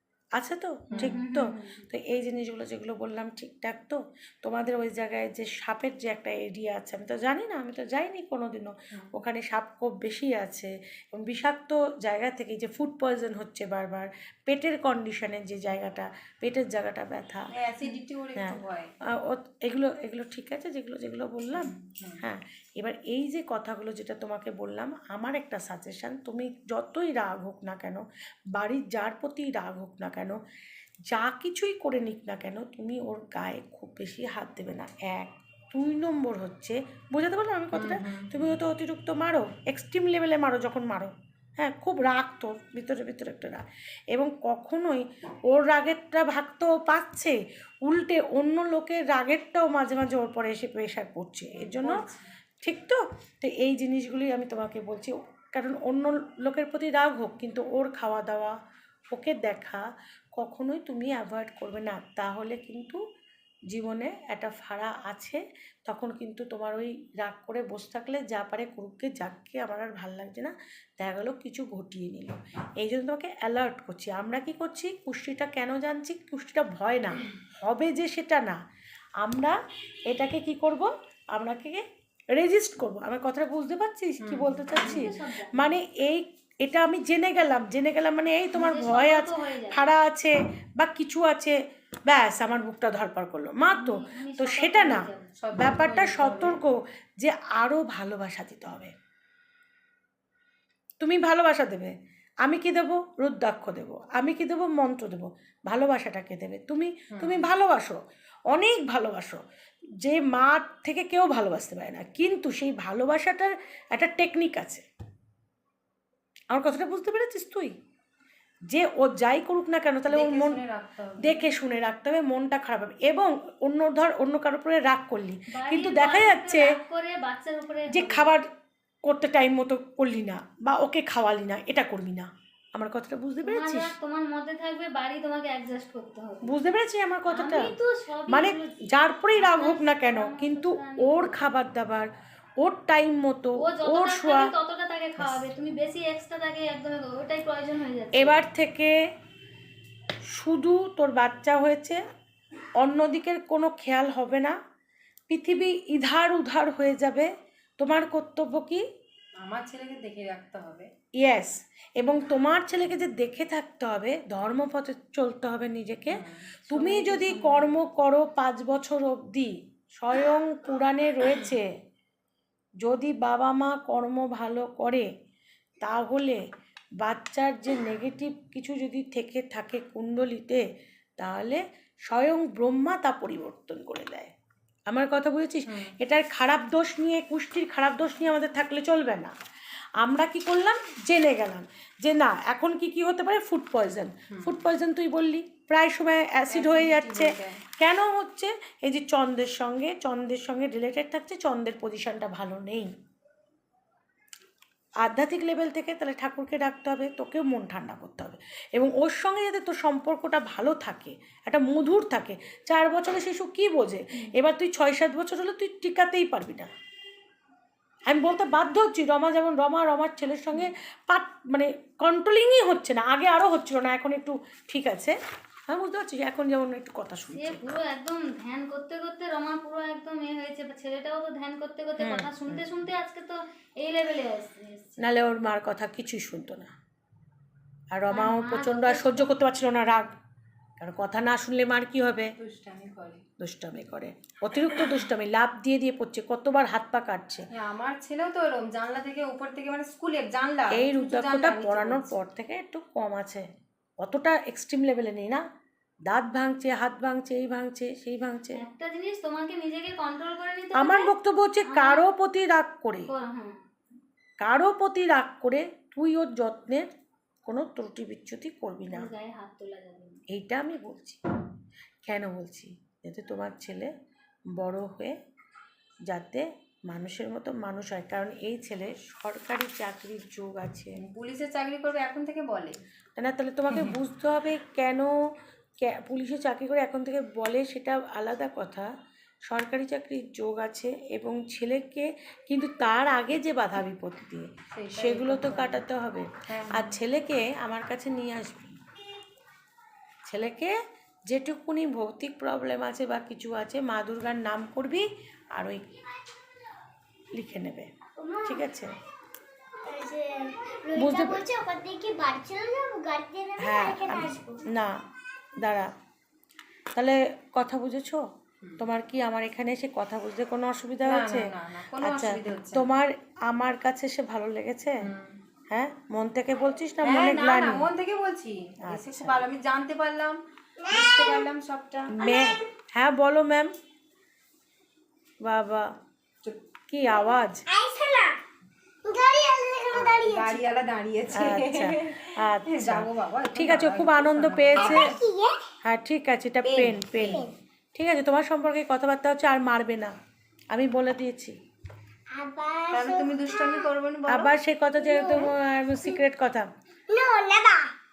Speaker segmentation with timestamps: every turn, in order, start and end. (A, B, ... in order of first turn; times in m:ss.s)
0:00.4-0:17.5 A
0:01.0-0:01.8 B
0:17.5-0:18.9 C
0:19.1-0:21.7 A
0:21.5-0:22.2 C
0:22.2-0:30.4 A
0:31.1-0:52.0 A
0:37.7-0:38.6 C
0:51.6-0:52.3 C
0:52.6-0:58.6 A
0:59.1-0:59.8 A
1:00.4-1:03.0 A
1:03.7-1:18.6 A
1:19.2-1:19.6 A
1:20.1-1:21.8 A
1:22.3-1:38.9 A
1:24.2-1:25.1 C
1:24.7-1:25.7 B
1:28.5-1:29.9 B
1:33.7-1:35.4 B
1:35.4-1:36.6 C
1:41.0-1:49.4 A
1:47.1-1:47.5 C
1:50.0-1:54.8 A
1:56.5-1:57.7 A
1:58.7-2:00.6 A
2:00.1-2:01.5 C
2:01.2-2:06.7 A
2:05.5-2:08.3 B
2:07.9-2:08.5 A
2:09.0-2:13.9 A
2:13.4-2:16.5 B
2:16.4-2:17.7 A
2:17.3-2:18.8 B
2:18.3-2:22.1 A
2:19.3-2:21.4 B
2:22.6-2:24.5 A
2:23.6-2:28.4 B
2:25.2-2:25.5 A
2:28.2-2:28.9 A
2:30.3-2:32.0 A
2:32.8-2:34.6 A
2:35.3-2:38.8 A
2:39.4-2:40.9 C
2:41.2-2:51.7 A
2:46.1-2:47.1 C
2:46.7-2:47.7 B
2:52.8-2:55.1 A
2:55.8-2:56.4 A
2:57.0-3:00.6 A
3:01.2-3:04.3 A
3:04.9-3:09.3 A
3:05.7-3:05.9 C
3:10.0-3:22.9 A
3:14.3-3:14.6 C
3:16.5-3:17.6 C
3:25.0-3:36.7 A
3:38.1-3:45.2 A
3:45.7-3:47.6 A
3:47.3-3:55.0 B
3:52.0-3:52.6 A
3:55.0-3:56.7 A
3:57.9-4:00.1 A
3:58.1-3:59.3 B
4:00.8-4:02.3 A
4:02.4-4:03.2 C
4:03.4-4:07.5 A
4:07.5-4:12.2 C
4:10.7-4:13.5 A
4:14.0-4:15.4 A
4:16.1-4:18.6 A
4:18.6-4:21.1 B
4:20.7-4:23.1 A
4:21.6-4:22.1 B
4:23.1-4:23.6 B
4:24.4-4:26.9 A
4:27.4-4:29.1 A
4:28.9-4:30.2 B
4:30.3-4:31.2 A
4:32.0-4:33.9 A
4:34.6-4:35.1 A
4:36.1-4:40.9 A
4:41.0-4:42.7 C
4:43.2-4:45.1 A
4:43.7-4:44.0 C
4:45.8-4:48.9 A
4:49.5-4:58.7 A
4:54.7-4:55.8 C
4:56.5-4:57.0 C
5:00.3-5:00.8 A
5:01.3-5:05.9 A
5:07.3-5:08.9 A
5:08.2-5:08.6 D
5:09.8-5:14.6 D
5:10.9-5:11.5 A
5:13.6-5:15.0 A
5:15.6-5:15.9 A
5:16.9-5:18.2 A
5:18.8-5:25.0 A
5:21.0-5:22.9 C
5:25.0-5:25.4 C
5:25.7-5:27.9 A
5:27.0-5:32.2 C
5:28.8-5:29.4 A
5:30.8-5:31.4 D
5:32.1-5:33.7 A
5:32.2-5:32.6 D
5:35.4-5:35.9 A
5:36.9-5:37.7 A
5:37.1-5:38.4 D
5:39.0-5:40.6 D
5:39.9-5:45.1 C
5:41.3-5:45.2 A
5:44.8-5:45.6 D
5:45.8-5:50.1 A
5:46.6-5:47.3 C
5:47.2-5:47.5 D
5:50.7-5:51.5 A
5:52.3-5:53.9 D
5:52.9-5:54.5 C
5:54.3-5:56.7 A
5:55.0-5:56.2 D
5:57.1-5:57.9 D